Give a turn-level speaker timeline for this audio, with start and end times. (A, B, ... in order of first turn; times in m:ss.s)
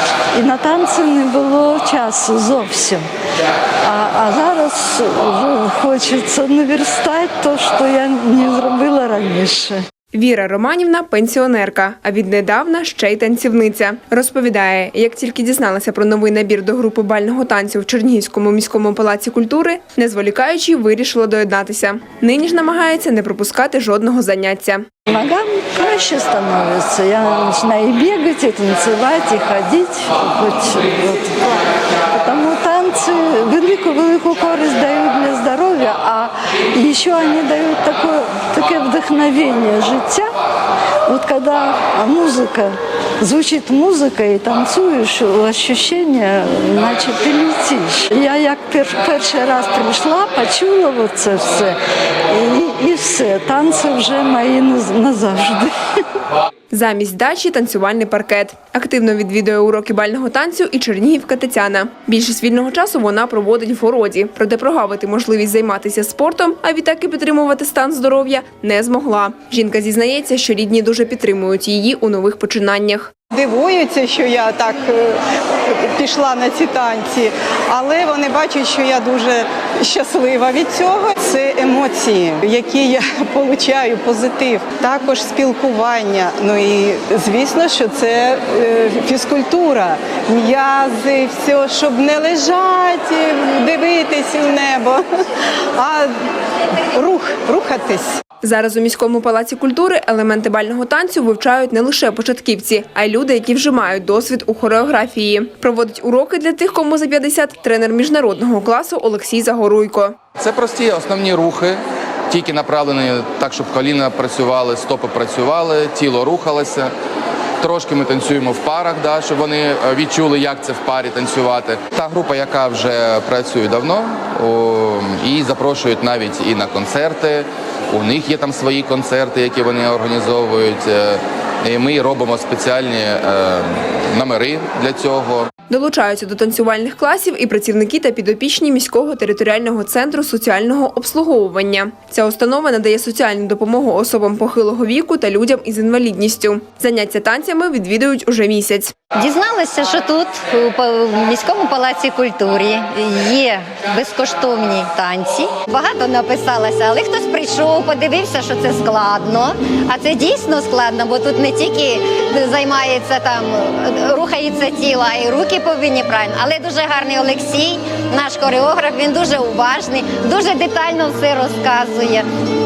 0:00.4-0:03.1 A
0:03.8-0:09.8 A
0:10.1-0:24.8 B
0:25.1-0:40.3 A
0:41.1-0:51.8 A
0:52.3-0:55.8 A
0:56.7-1:13.1 B
1:13.3-1:35.1 C
1:35.8-1:36.1 C
1:36.9-1:38.2 C
1:38.4-1:50.2 B
1:50.4-1:56.9 D
1:57.6-2:15.5 D
2:15.7-2:28.9 B
2:29.1-2:52.3 E